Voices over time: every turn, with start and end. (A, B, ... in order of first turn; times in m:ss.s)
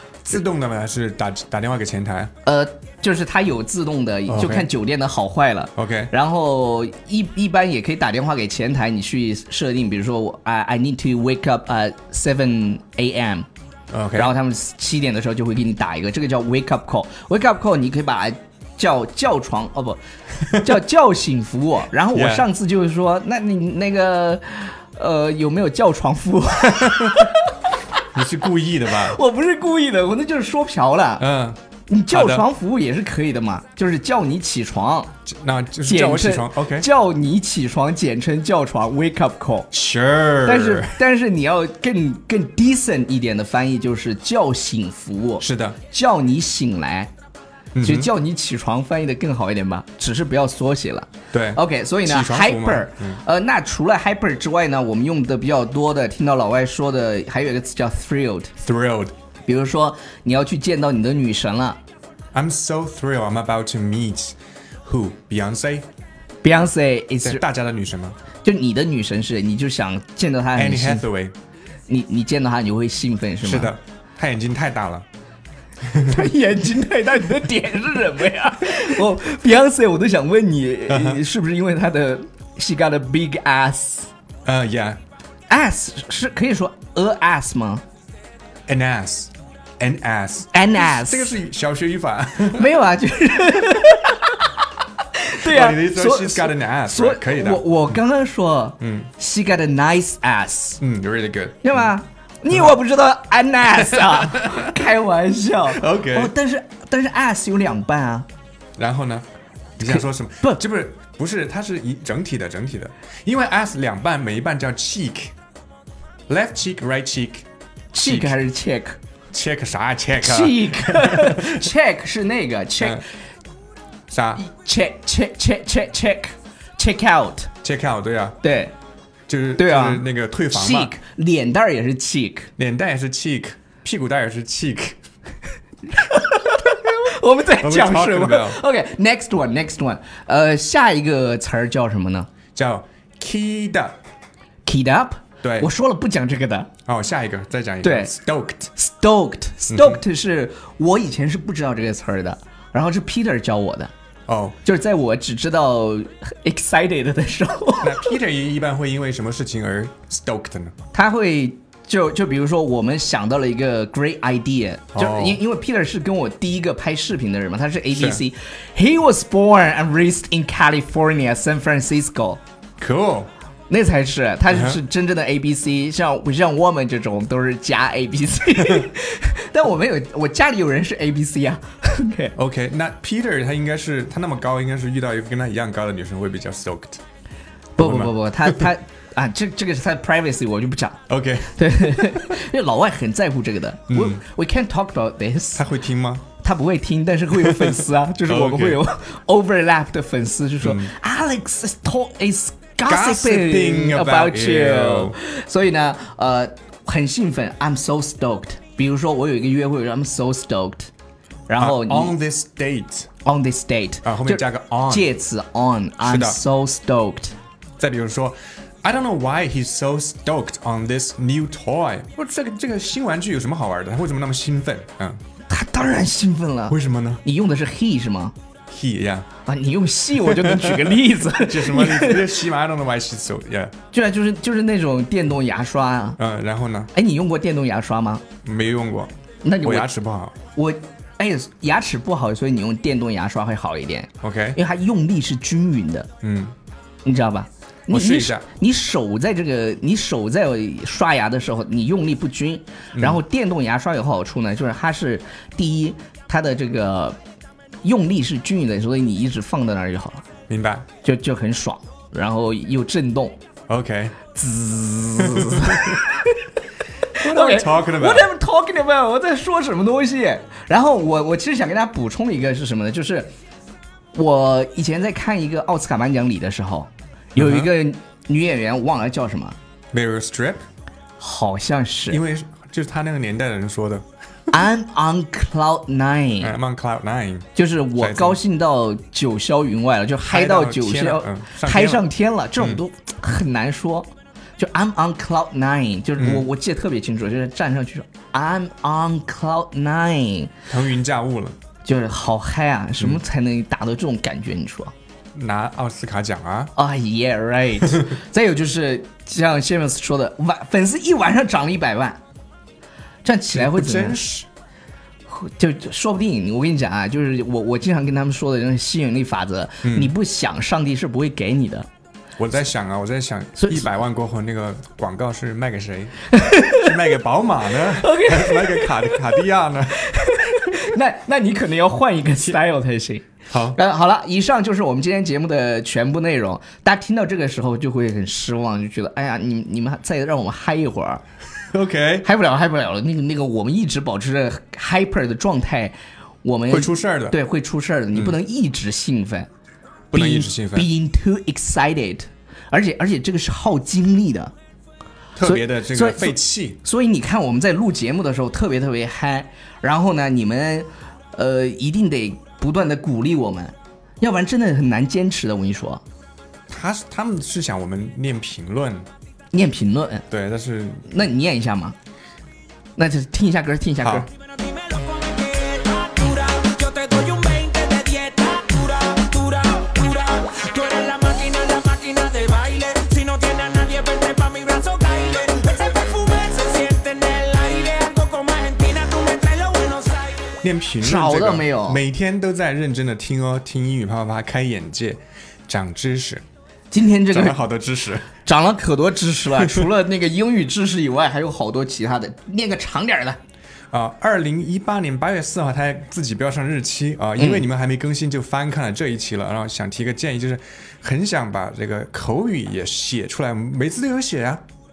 0:00.2-0:02.3 A
0:02.4-0:13.4 B
0:04.3-0:04.7 A
0:05.8-0:06.1 A
0:13.9-0:14.3 A
0:14.1-0:20.0 B
0:20.5-0:27.5 B
0:22.1-0:22.5 A
0:26.8-0:27.1 A
0:28.1-0:29.2 A
0:28.9-0:31.2 B
0:31.2-0:31.6 A
0:31.9-0:35.1 B
0:32.1-0:32.4 A
0:35.2-0:36.9 A
0:35.8-0:39.7 B
0:39.7-0:41.0 A
0:40.4-0:47.1 B
0:45.4-0:45.8 A
0:47.7-0:48.1 A
0:47.8-0:58.5 B
0:51.3-0:53.2 A
0:58.6-0:59.1 A
0:59.4-1:01.8 B
1:02.3-1:05.8 A
1:06.4-1:07.4 B
1:07.2-1:08.2 A
1:08.4-1:11.1 B
1:10.6-1:11.3 A
1:11.9-1:13.7 B
1:13.4-1:15.0 A
1:15.9-1:16.2 A
1:16.0-1:24.1 B
1:20.9-1:21.2 A
1:24.4-1:25.0 A
1:25.5-1:27.8 B
1:28.7-1:32.7 A
1:30.5-1:31.4 B
1:32.5-1:34.5 B
1:35.1-1:40.8 B
1:35.4-1:37.7 A
1:38.8-1:39.1 A
1:40.8-1:41.9 A
1:41.6-1:48.2 B
1:44.4-1:44.7 A
1:45.7-1:46.3 A
1:48.8-1:49.2 A
1:49.8-1:55.3 A
1:49.8-1:50.6 B
1:56.3-1:57.4 A
1:57.9-1:59.0 B
1:58.0-1:58.4 A
1:59.3-2:01.7 A
2:00.2-2:03.0 B
2:04.1-2:04.4 A
2:04.4-2:07.5 B
2:07.6-2:08.4 A
2:08.4-2:08.7 B
2:09.3-2:10.9 A
2:09.6-2:12.5 B
2:12.6-2:15.0 A
2:15.9-2:22.3 B
2:17.6-2:18.6 A
2:22.5-2:24.0 A
2:24.6-2:26.7 B
2:25.4-2:25.7 A
2:26.8-2:28.7 A
2:27.8-2:28.1 B
2:28.7-2:33.9 B
2:29.7-2:30.0 A
2:34.3-2:34.6 A
2:34.6-2:38.2 B
2:37.8-2:40.7 A
2:40.9-2:52.4 B
2:44.9-2:45.4 A
2:47.9-2:48.2 A
2:52.8-2:53.3 A
2:53.7-3:02.3 B
2:54.5-2:54.8 A
3:02.4-3:07.0 A
3:07.8-3:11.0 B
3:07.8-3:08.7 A
3:11.1-3:12.0 A
3:11.5-3:15.6 B
3:13.9-3:14.2 A
3:15.5-3:16.2 A
3:16.4-3:30.9 B
3:17.4-3:18.8 A
3:20.6-3:20.9 A
3:22.8-3:25.2 A
3:31.5-3:32.1 B
3:31.6-3:33.1 A
3:33.2-3:37.3 B
3:34.0-3:35.1 A
3:36.0-3:36.4 A
3:37.8-3:45.2 A
3:45.5-3:48.3 B
3:46.7-3:47.2 A
3:48.7-3:49.3 A
3:49.4-3:52.4 B
3:50.2-3:53.7 A
3:53.9-3:56.2 B
3:56.2-3:56.9 A
3:56.9-3:58.2 B
3:58.4-3:59.1 A
3:59.4-3:59.9 B
3:59.6-4:00.3 A
4:00.5-4:06.1 B
4:04.2-4:04.6 A
4:06.2-4:06.5 A
4:07.0-4:17.2 B
4:07.9-4:08.4 A
4:12.9-4:13.2 A
4:17.8-4:20.2 B
4:20.5-4:20.8 A
4:21.0-4:23.4 B
4:23.7-4:24.2 A
4:24.3-4:26.4 B
4:25.2-4:25.9 A
4:27.2-4:33.3 B
4:27.2-4:28.3 A
4:34.1-4:39.6 B
4:37.4-4:37.7 A
4:39.9-4:40.6 A
4:41.2-4:42.2 B
4:42.1-4:44.0 A
4:44.5-4:46.5 B
4:46.4-4:48.4 A
4:47.5-5:00.5 B
4:50.3-4:52.0 A
4:56.2-4:56.4 A
5:00.7-5:01.6 A
5:01.8-5:04.9 B
5:05.3-5:06.7 A
5:06.8-5:12.2 B
5:13.2-5:14.2 B
5:13.5-5:14.5 A
5:15.3-5:21.9 B
5:19.8-5:20.1 A
5:22.4-5:30.0 A
5:23.6-5:23.8 B
5:26.3-5:26.9 B
5:28.0-5:29.3 B
5:30.0-5:41.2 B
5:33.5-5:33.8 A
5:41.7-5:42.3 A
5:42.2-5:49.5 B
5:46.7-5:47.4 A
5:50.1-5:50.9 A
5:50.1-5:54.5 B
5:55.4-5:56.8 A
5:55.4-6:06.0 B
6:06.7-6:09.1 A
6:09.5-6:10.3 B
6:10.3-6:11.1 A
6:11.1-6:11.9 B
6:13.0-6:14.3 B
6:14.6-6:30.5 C
6:30.6-6:36.4 A
6:31.0-6:32.0 B
6:36.9-6:37.6 B
6:37.3-6:38.3 A
6:38.4-6:43.4 B
6:39.6-6:39.8 A
6:43.9-6:54.6 A
6:47.4-6:47.7 B